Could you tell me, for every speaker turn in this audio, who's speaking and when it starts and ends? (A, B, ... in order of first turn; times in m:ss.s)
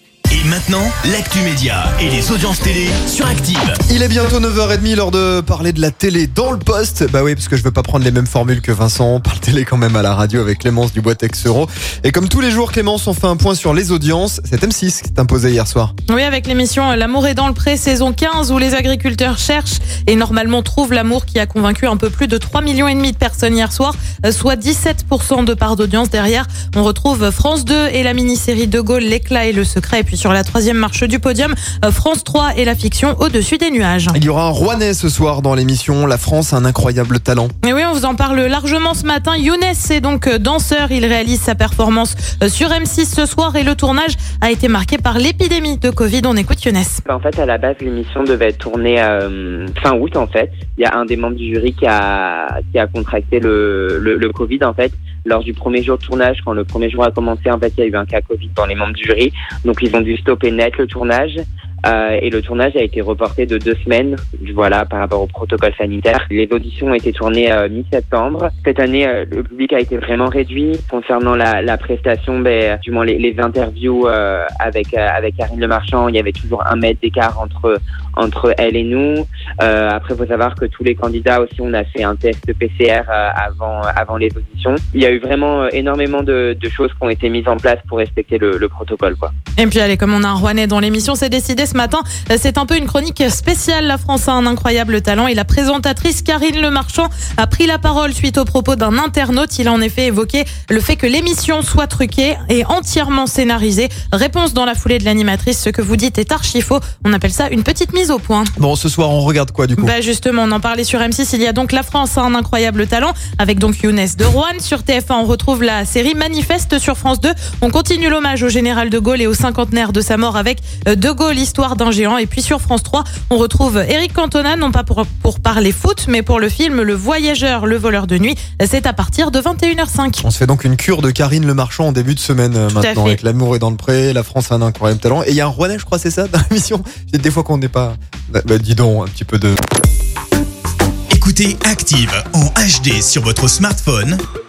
0:00.3-0:03.8 A
0:03.9-0:15.9 B
0:16.1-0:34.2 C
0:34.1-0:37.5 B
0:37.6-0:47.0 C
0:47.0-1:29.3 D
1:29.6-1:48.5 C
1:48.6-1:49.9 B
1:49.8-2:10.2 C
2:10.2-2:19.6 B
2:12.7-2:13.2 C
2:21.1-2:24.2 A